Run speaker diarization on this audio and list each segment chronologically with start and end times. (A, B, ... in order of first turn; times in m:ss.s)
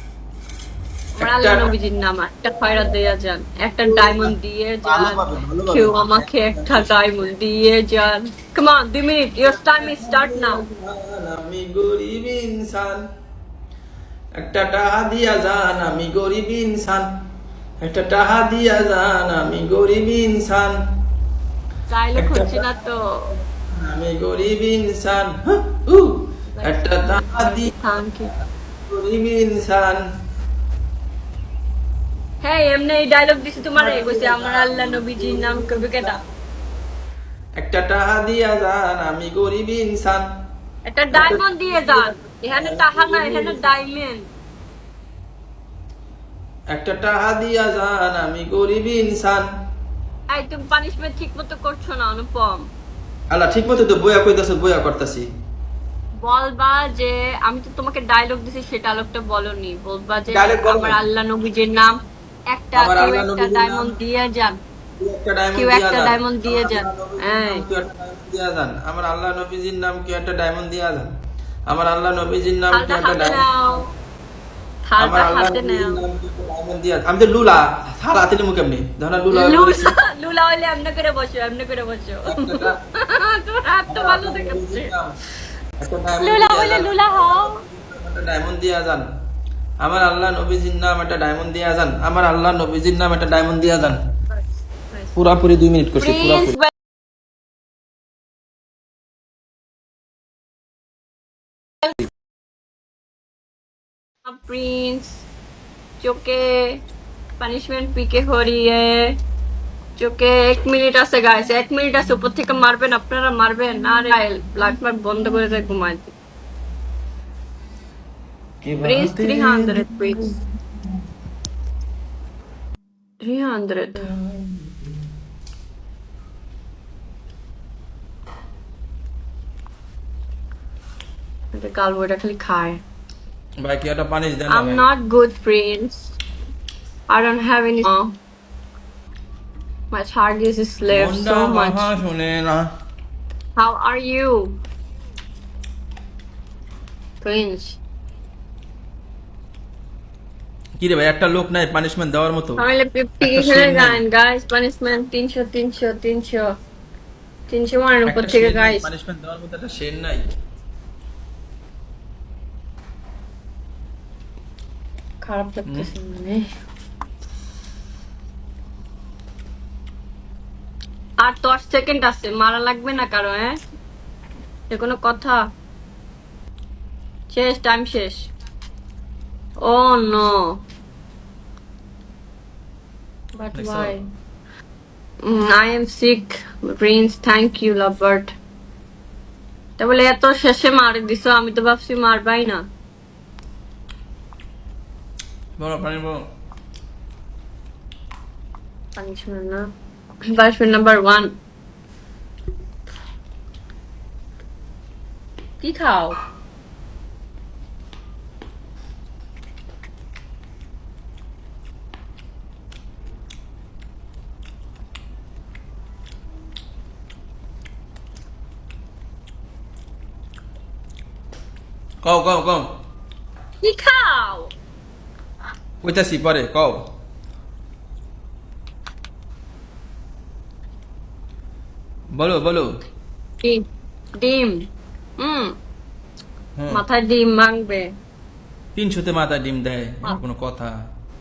0:01.2-0:10.6 A
0:01.2-0:01.8 B
0:03.8-0:04.3 B
0:04.8-0:07.0 B
0:09.8-0:13.0 B
0:14.4-0:17.1 B
0:17.8-0:20.8 B
0:21.9-0:23.3 A
0:22.2-0:22.7 B
0:23.6-0:27.7 B
0:26.5-0:28.3 A
0:28.9-0:30.0 B
0:32.4-0:36.2 A
0:33.7-0:36.2 B
0:37.6-0:40.2 B
0:40.8-0:44.2 A
0:41.1-0:43.6 B
0:46.7-0:49.5 B
0:50.3-0:52.7 A
0:53.3-0:55.2 B
0:56.2-1:02.0 A
1:00.3-1:01.0 B
1:02.5-1:04.6 A
1:02.7-1:03.9 B
1:05.0-1:11.1 B
1:05.6-1:07.6 A
1:11.7-1:13.4 B
1:12.7-1:13.9 A
1:14.9-1:16.0 A
1:15.0-1:19.9 B
1:19.3-1:24.9 A
1:22.2-1:22.7 B
1:23.9-1:25.1 B
1:25.8-1:29.0 B
1:26.2-1:27.6 A
1:29.8-1:34.0 B
1:34.9-1:35.2 A
1:35.2-1:36.6 B
1:36.0-1:36.7 A
1:44.2-1:45.2 A
1:46.0-1:46.8 A
1:47.4-1:49.2 A
1:50.0-1:56.1 A
1:58.6-2:00.4 B
1:58.8-2:00.2 A
2:03.2-2:04.1 A
2:04.0-2:04.9 B
2:11.5-2:12.8 A
2:13.6-2:14.8 B
2:14.5-2:16.1 A
2:17.1-2:18.1 A
2:19.9-2:21.9 A
2:20.9-2:22.6 B
2:23.6-2:24.6 A
2:27.2-2:27.8 A
2:30.8-2:32.6 B
2:32.6-2:36.5 A
2:33.2-2:34.0 B
2:37.5-2:38.9 A
2:38.0-2:40.2 B
2:45.2-2:46.4 A
2:45.6-2:45.9 B
2:51.2-2:53.6 A
2:54.7-2:55.4 A
2:57.3-2:58.3 A
2:59.6-3:00.6 A
3:03.4-3:04.0 A
3:03.5-3:03.9 B
3:05.2-3:08.3 A
3:09.8-3:12.6 A
3:15.6-3:16.2 B
3:19.0-3:19.6 A
3:20.3-3:21.3 A
3:25.6-3:26.2 A
3:42.0-3:42.6 B
3:43.6-3:44.5 A
3:45.8-3:46.8 B
3:52.1-3:52.7 B
3:54.2-3:54.6 A
3:55.2-3:55.5 A
3:56.6-3:56.8 B
3:56.7-3:57.9 A
3:58.8-4:00.7 B